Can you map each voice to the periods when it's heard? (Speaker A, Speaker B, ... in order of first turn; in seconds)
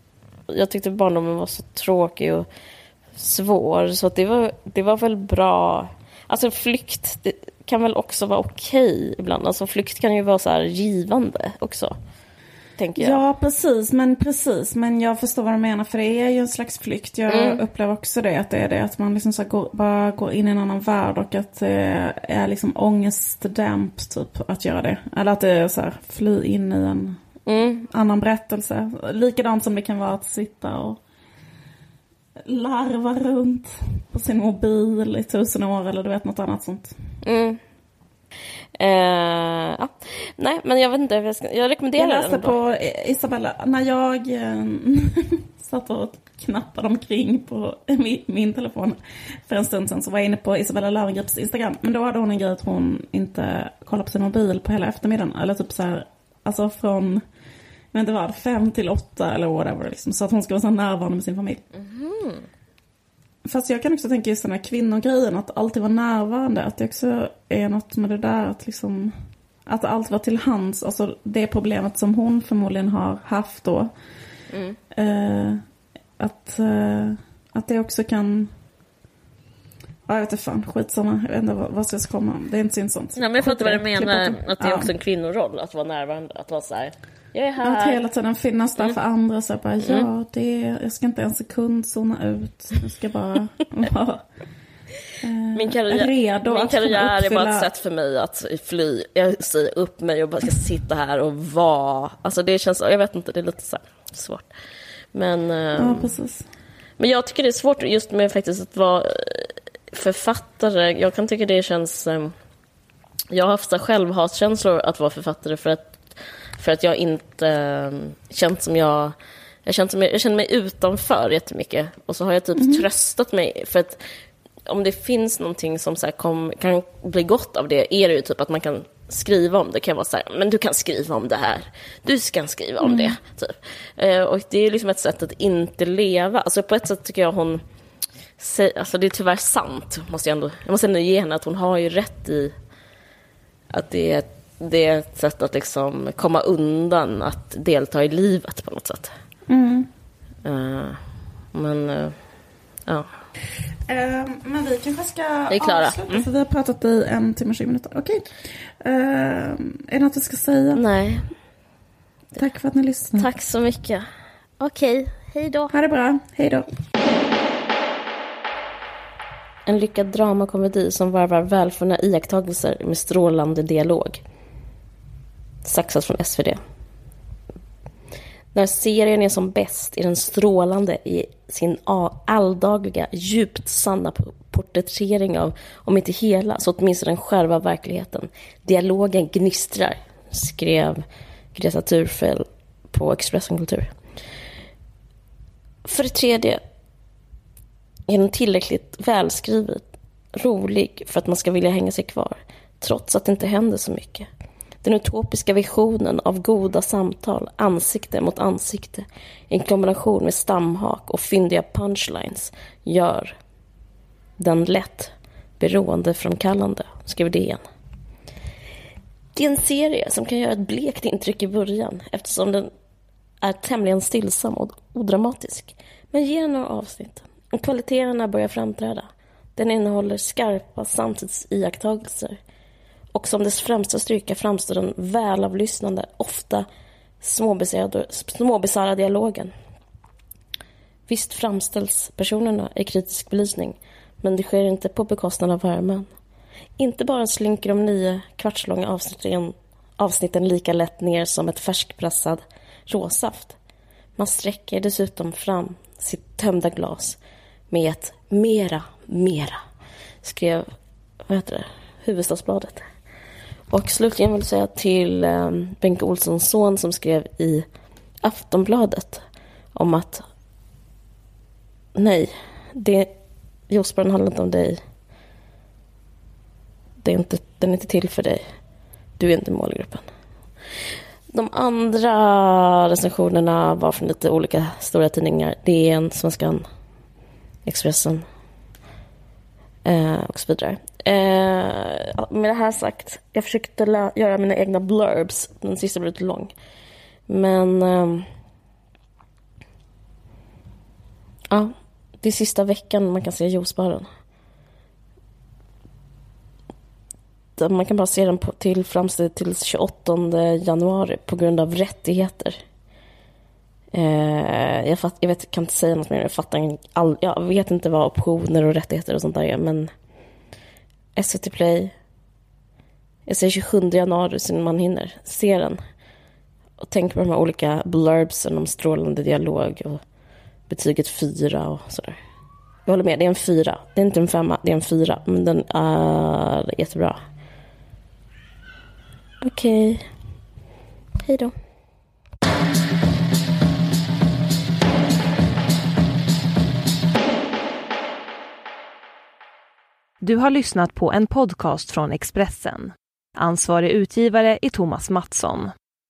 Speaker A: 0.5-2.5, 3.2-12.0, 12.8-13.2, 17.3-17.6, 27.5-27.9, 37.2-37.6, 38.8-42.6, 61.7-62.5, 74.5-74.8, 83.2-88.0, 89.8-90.1, 95.5-104.5, 105.1-106.2, 107.0-112.3, 113.3-119.2, 119.7-124.0, 124.7-137.6, 138.4-142.5, 143.7-149.1, 150.4-151.0, 151.5-152.2, 155.5-156.2, 160.8-161.3, 163.2-164.1, 164.6-165.7, 169.7-174.2, 175.6-176.6, 178.5-193.9, 195.8-196.6, 198.1-204.3, 204.8-213.4, 214.4-217.7, 219.4-222.7, 223.4-232.4, 233.1-236.7, 237.2-239.5, 241.1-246.1, 246.8-253.6, 254.2-257.2, 257.7-259.6, 260.2-260.7, 261.3-262.8, 263.7-267.7, 268.2-269.2, 269.7-270.2, 272.0-273.1, 273.7-274.8, 277.0-278.4, 279.2-280.1, 281.3-286.7, 287.7-288.3, 289.9-296.5, 297.3-298.3, 301.5-304.1, 307.6-312.6, 313.9-319.9, 321.2-321.9, 323.3-325.8, 326.8-330.0, 330.7-332.2, 332.9-337.2, 339.4-340.1, 341.2-341.5
Speaker B: 13.0-27.2, 27.9-31.0, 32.4-37.0, 42.0-57.2, 57.9-61.6, 63.5-69.1, 69.7-73.9, 74.9-75.6, 76.2-78.5, 80.1-84.9, 87.6-94.3, 95.2-97.7, 105.8-106.5, 122.6-122.9, 132.8-133.2, 149.5-149.9, 153.9-160.8, 162.4-163.3, 165.7-166.7
Speaker C: 350.2-355.7